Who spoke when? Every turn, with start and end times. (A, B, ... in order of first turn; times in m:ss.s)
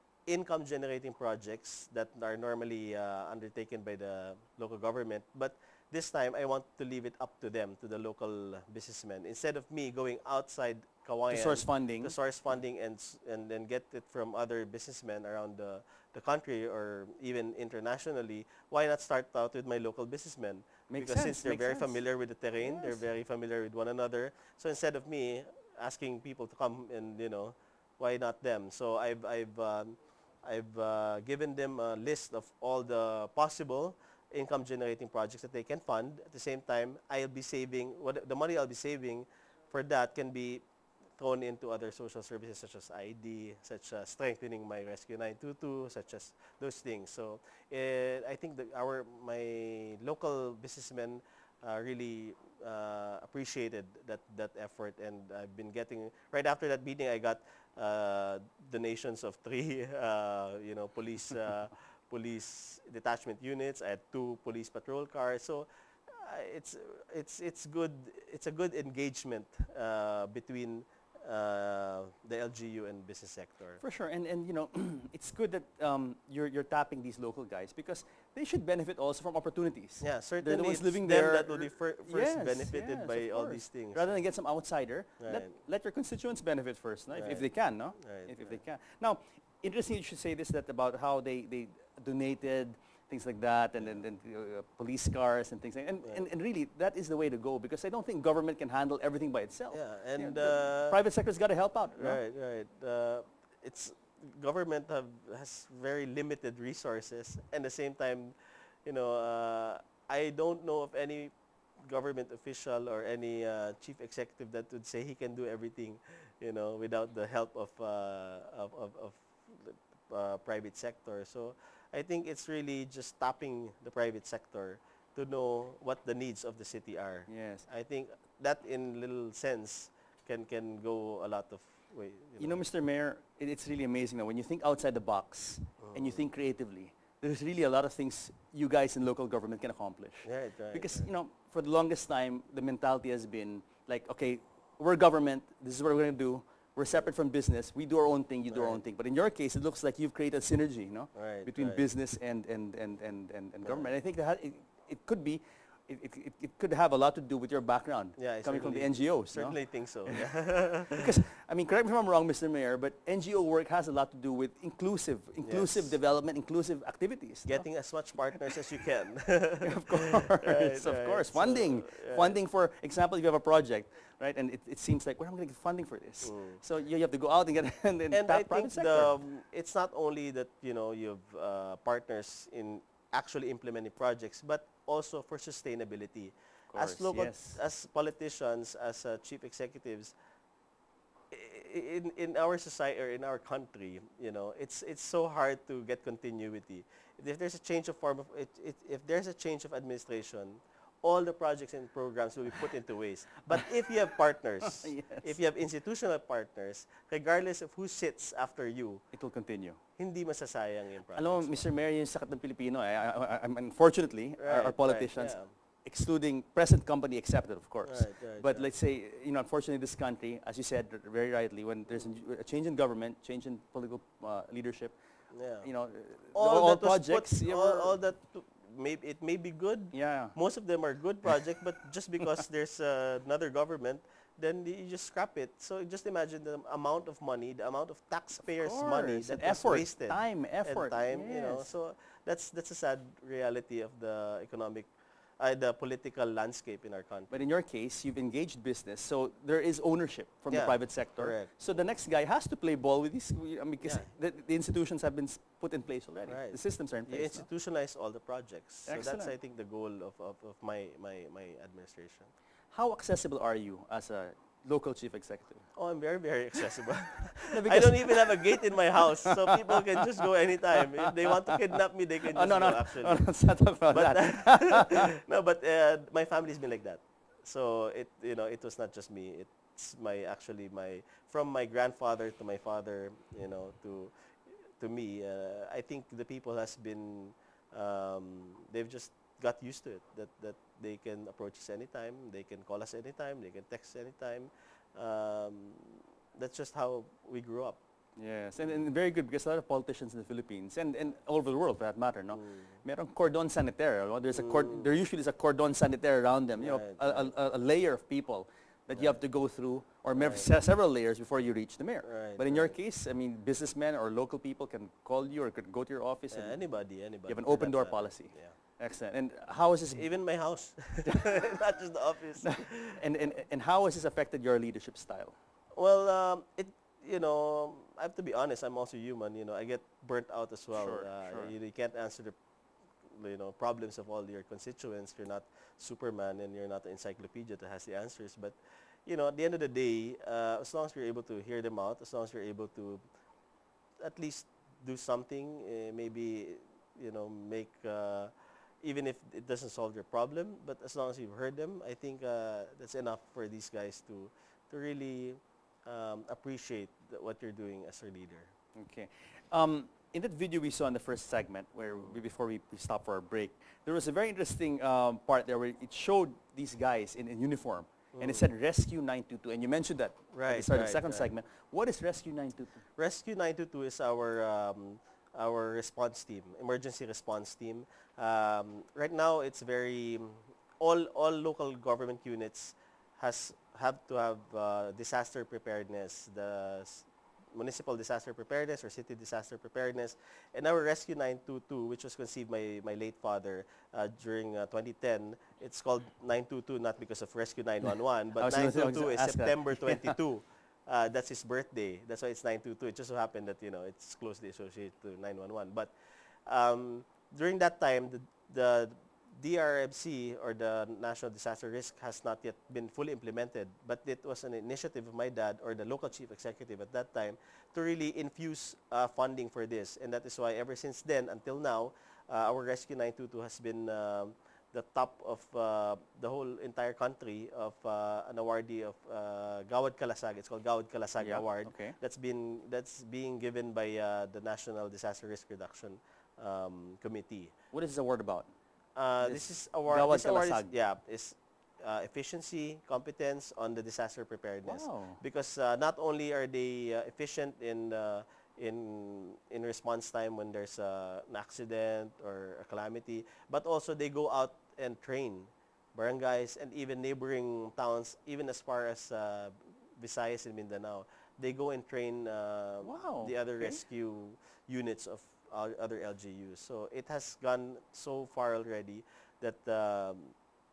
0:00.3-0:40.6 A
0:11.3-0:12.1 B
0:20.9-0:22.0 B
0:22.6-0:23.0 B
0:41.2-1:13.8 A
1:13.8-1:42.2 B
1:20.0-1:24.2 A
1:25.2-1:25.5 A
1:27.1-1:27.4 A
1:28.0-1:28.6 A
1:39.7-1:41.0 A
1:42.0-1:51.3 A
1:51.8-2:12.6 A
2:07.3-2:07.6 B
2:12.4-2:40.3 B
2:15.8-2:16.2 A
2:20.2-2:21.1 A
2:28.5-2:28.8 A
2:31.1-2:31.8 A
2:33.6-2:33.9 A
2:38.2-2:41.0 A
2:40.9-2:47.6 B
2:45.4-2:46.0 A
2:47.4-2:52.4 A
2:49.6-2:59.1 B
2:56.2-2:56.6 A
2:58.1-3:10.1 A
3:06.7-3:07.6 B
3:11.3-3:29.0 A
3:23.6-3:23.9 B
3:24.6-3:25.3 B
3:29.1-3:29.8 B
3:30.0-3:31.6 A
3:31.1-3:45.0 B
3:34.4-3:35.5 A
3:37.8-3:38.7 A
3:45.3-3:45.7 A
3:45.6-3:48.0 B
3:46.3-4:04.9 A
3:49.9-3:50.3 B
3:58.6-4:01.7 B
4:05.4-4:07.3 A
4:07.3-4:17.4 B
4:10.5-4:11.5 A
4:13.8-4:14.1 A
4:16.3-4:22.3 A
4:18.8-4:19.3 B
4:22.7-4:25.7 B
4:25.7-4:33.3 A
4:27.4-4:29.6 B
4:32.3-4:35.1 B
4:33.9-4:44.1 A
4:44.8-4:57.8 A
4:58.2-5:16.6 B
5:02.3-5:02.6 A
5:04.3-5:04.9 A
5:06.6-5:07.3 A
5:08.9-5:09.2 A
5:10.2-5:10.4 A
5:12.0-5:12.8 A
5:16.3-5:18.5 A
5:17.3-5:20.1 B
5:19.9-5:23.0 A
5:21.0-5:21.4 B
5:22.4-5:25.3 B
5:25.8-5:32.3 A
5:30.7-5:31.5 B
5:33.1-5:43.0 A
5:44.0-5:58.5 A
5:58.8-6:12.8 B
6:01.9-6:02.2 A
6:08.1-6:08.5 A
6:10.3-6:11.3 A
6:13.0-6:45.9 A
6:38.4-6:40.2 B
6:46.5-7:17.5 A
7:11.2-7:12.0 B
7:17.7-7:18.5 B
7:19.0-7:50.3 A
7:19.2-7:20.7 B
7:24.6-7:25.2 B
7:42.8-7:43.8 B